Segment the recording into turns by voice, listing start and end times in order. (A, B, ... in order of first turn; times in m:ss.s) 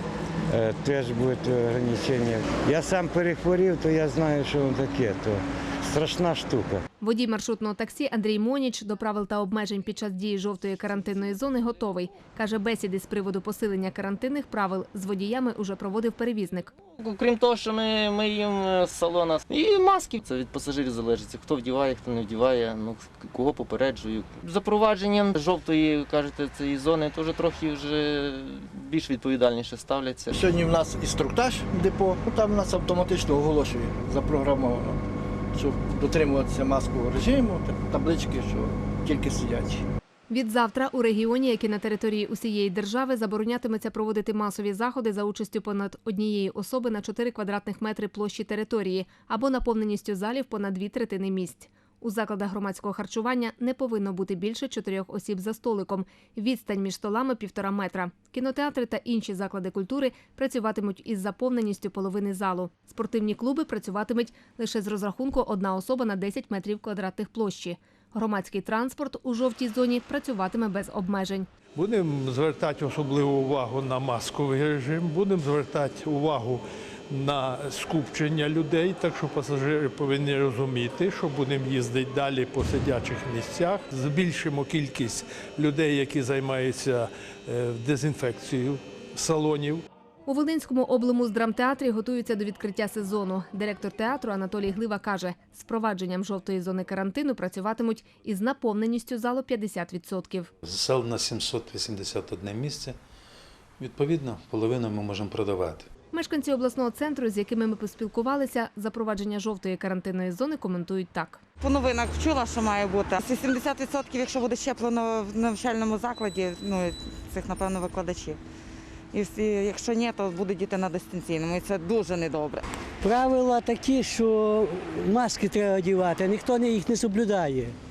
0:00.5-0:06.8 A
0:07.0-0:16.7 B
0:17.0-0:30.3 C
0:30.3-0:35.0 D
0:35.5-0:39.8 D
0:40.3-1:11.5 B
1:11.8-1:29.8 E
1:30.3-1:40.5 B
1:40.6-1:43.0 F
1:43.8-1:45.9 F
1:46.1-1:51.4 B
1:51.6-1:58.4 G
1:59.1-2:02.6 G
2:03.0-2:07.8 H